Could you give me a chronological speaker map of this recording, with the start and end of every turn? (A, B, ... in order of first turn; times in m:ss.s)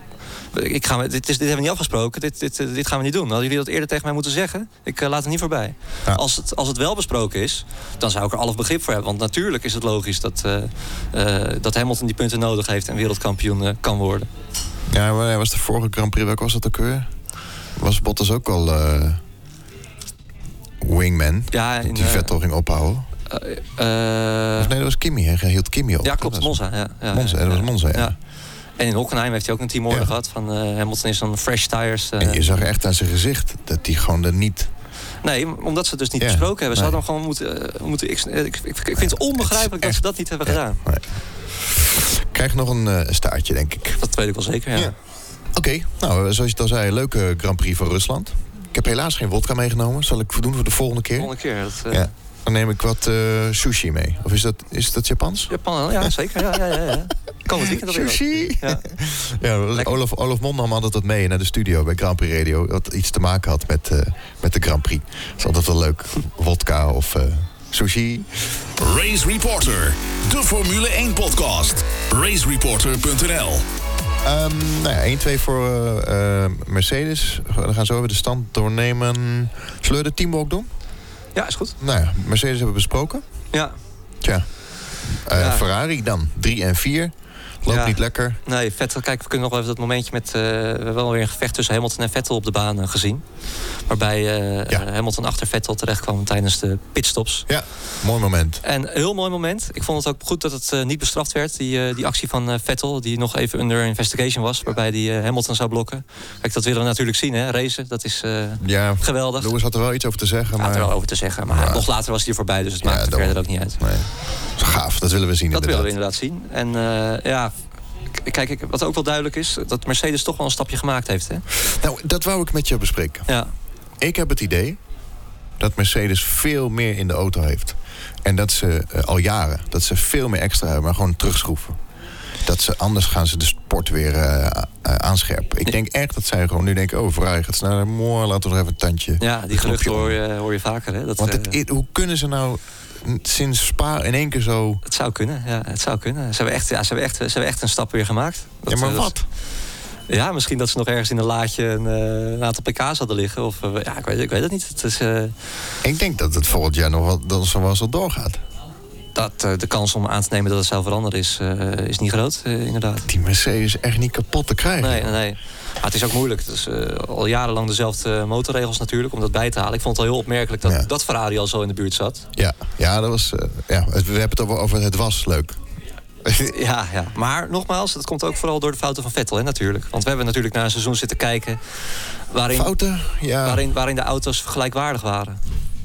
0:00.5-0:14.3 A
0:14.9-0:17.1 B
0:17.8-0:19.2 B
0:20.8-0:23.1 B
0:21.5-0:22.3 A
0:23.3-0:24.7 A
0:24.6-0:26.6 B
0:26.0-0:28.1 A
0:27.1-0:28.1 B
0:28.8-0:32.6 A
0:32.2-0:34.7 B
0:35.2-0:40.8 A
0:36.2-0:37.0 B
0:39.0-0:41.0 B
0:41.6-0:44.0 B
0:44.0-0:44.9 A
0:45.5-0:51.3 B
0:51.2-0:52.1 A
0:51.9-0:56.6 B
0:55.5-0:58.9 A
0:57.5-1:08.6 B
1:08.8-1:13.6 C
1:14.2-1:20.7 B
1:21.3-1:21.8 A
1:21.8-1:23.2 B
1:24.2-1:24.5 B
1:25.1-1:28.4 B
1:25.3-1:25.6 A
1:27.7-1:33.2 A
1:33.9-1:37.5 A
1:37.5-1:38.6 B
1:38.6-1:49.5 A
1:48.6-1:50.9 B
1:50.6-1:53.8 A
1:51.5-1:51.9 B
1:52.8-1:55.9 B
1:55.5-1:57.5 A
1:58.2-2:01.4 A
2:01.6-2:03.3 B
2:03.3-2:03.5 A
2:04.0-2:04.8 B
2:05.6-2:11.8 B
2:12.4-2:20.2 B
2:19.2-2:21.6 A
2:21.2-2:24.8 B
2:24.8-2:29.1 A
2:28.7-2:29.2 B
2:30.1-2:35.4 A
2:35.8-2:38.4 B
2:39.1-2:43.1 A
2:43.1-2:45.2 B
2:44.8-2:52.2 A
2:52.3-2:55.6 B
2:56.2-2:56.5 B
2:56.4-3:01.6 A
3:02.3-3:02.7 A
3:02.5-3:03.6 B
3:03.4-3:05.4 A